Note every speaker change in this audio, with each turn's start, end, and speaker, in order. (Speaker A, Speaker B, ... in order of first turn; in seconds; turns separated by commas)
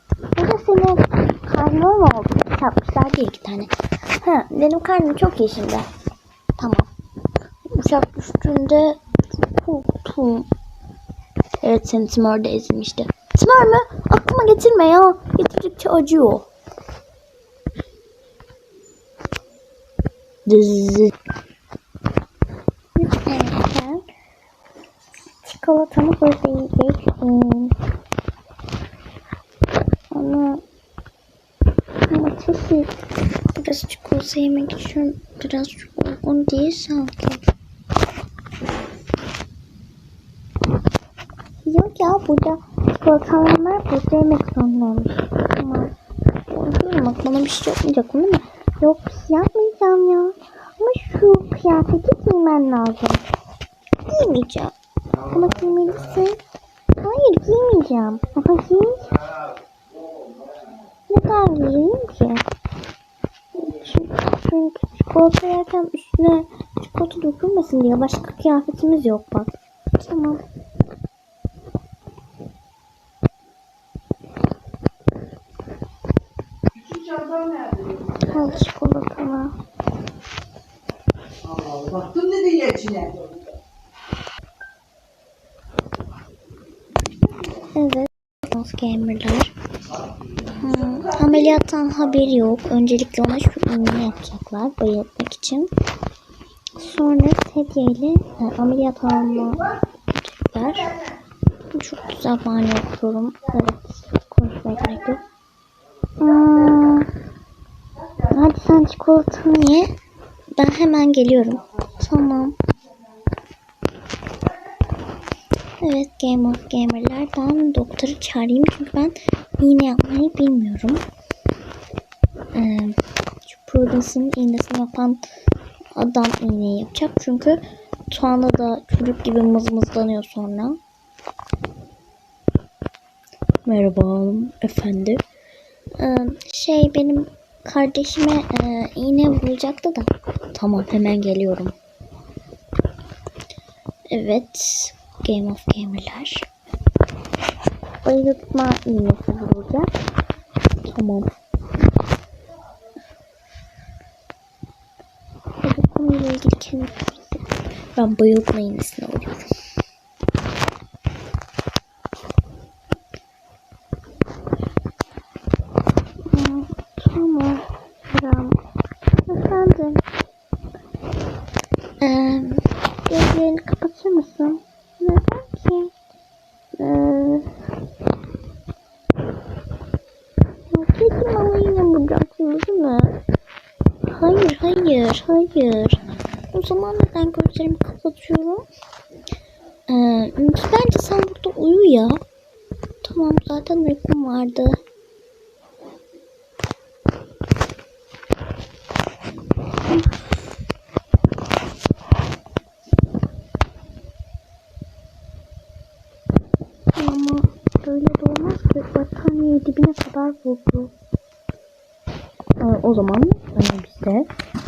Speaker A: 0.3-5.9, Speaker A: 6.6-6.9, Speaker A: 7.7-10.5, Speaker A: 11.6-16.5, Speaker A: 20.5-21.1, Speaker A: 23.0-24.1, Speaker A: 25.4-27.8, Speaker A: 30.1-30.6, Speaker A: 32.1-33.0, Speaker A: 33.5-37.4, Speaker A: 41.6-46.0, Speaker A: 46.5-53.3, Speaker A: 54.1-54.7, Speaker A: 55.3-56.4, Speaker A: 57.0-59.1, Speaker A: 61.1-62.5, Speaker A: 63.5-70.4, Speaker A: 78.2-79.6, Speaker A: 87.6-89.5, Speaker A: 90.5-95.7, Speaker A: 96.8-101.0, Speaker A: 101.7-105.2, Speaker A: 106.2-107.1, Speaker A: 108.2-110.0, Speaker A: 110.5-112.6, Speaker A: 115.8-121.0, Speaker A: 122.5-125.2, Speaker A: 126.0-130.8, Speaker A: 133.7-135.2, Speaker A: 136.0-141.8, Speaker A: 144.1-146.5, Speaker A: 148.0-149.9, Speaker A: 150.8-151.3, Speaker A: 155.6-159.5, Speaker A: 166.3-168.6, Speaker A: 169.3-170.0, Speaker A: 172.0-175.9, Speaker A: 176.8-177.5, Speaker A: 180.7-183.2, Speaker A: 184.1-188.7, Speaker A: 189.9-192.2, Speaker A: 193.0-194.8, Speaker A: 207.0-210.9, Speaker A: 212.6-214.3